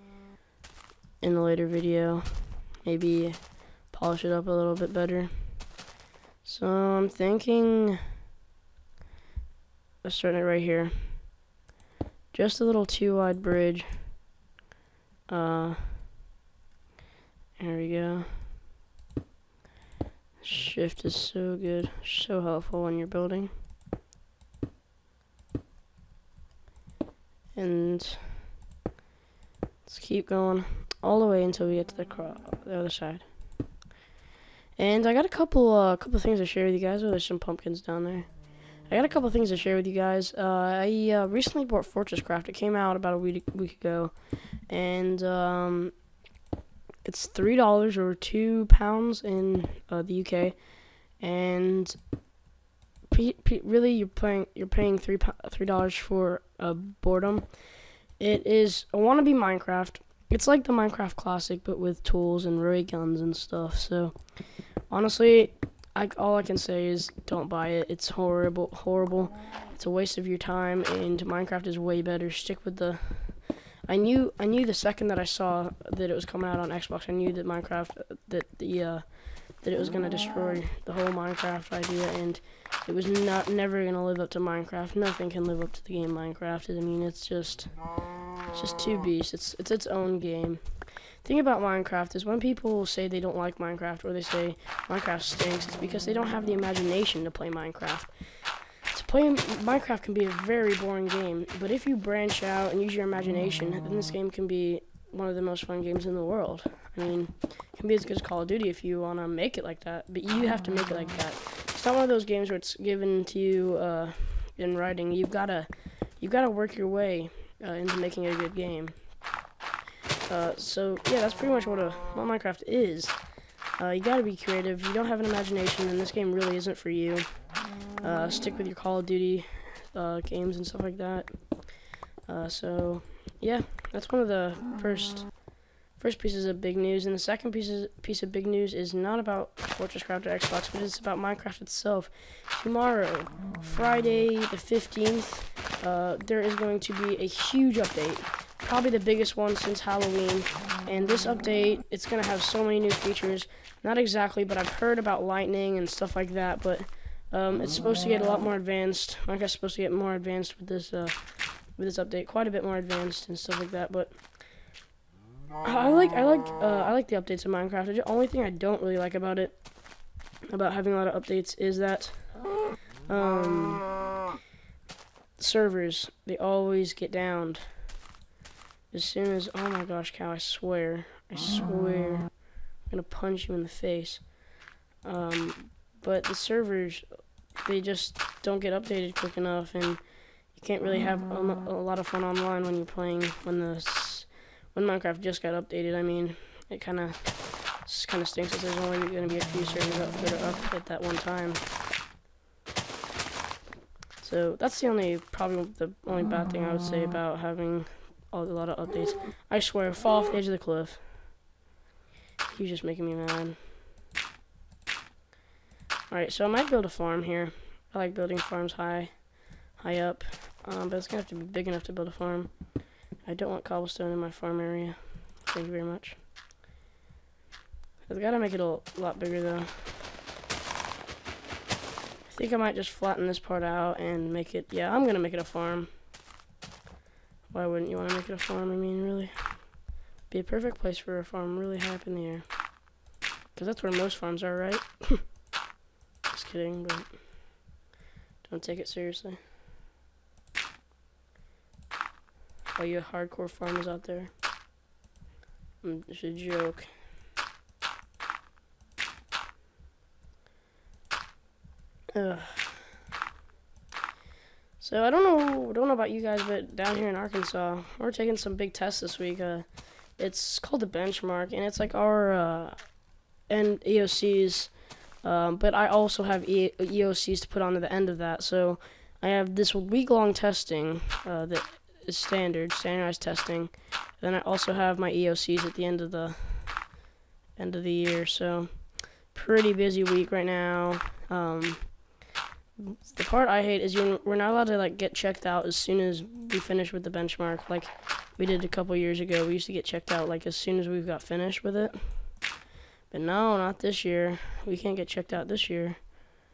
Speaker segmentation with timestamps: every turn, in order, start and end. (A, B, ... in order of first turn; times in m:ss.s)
0:01.2-0:05.7 A
0:06.4-0:08.0 A
0:10.0-0:11.3 A
0:12.3-0:14.2 A
0:15.3-0:16.1 A
0:17.6-0:18.5 A
0:20.4-0:23.5 A
0:27.5-0:28.4 A
0:29.8-0:33.4 A
0:34.8-0:46.1 A
0:47.0-0:52.0 A
0:53.1-1:59.2 A
2:00.2-2:44.2 A
2:45.6-2:49.7 A
2:50.5-2:53.9 A
2:55.4-2:58.0 A
2:58.9-3:04.4 A
3:05.0-3:21.6 A
3:24.2-3:31.4 A
3:32.4-3:33.6 A
3:36.1-3:46.2 A
3:48.0-3:50.0 A
3:52.2-3:55.9 A
3:57.5-4:02.9 A
4:03.5-4:05.4 A
4:06.3-4:07.6 A
4:08.4-4:09.4 A
4:12.7-4:14.4 A
4:15.8-4:16.9 A
4:22.1-4:22.9 A
4:24.8-4:47.0 A
4:47.6-4:52.2 A
4:52.8-5:02.5 A
5:03.1-5:06.2 A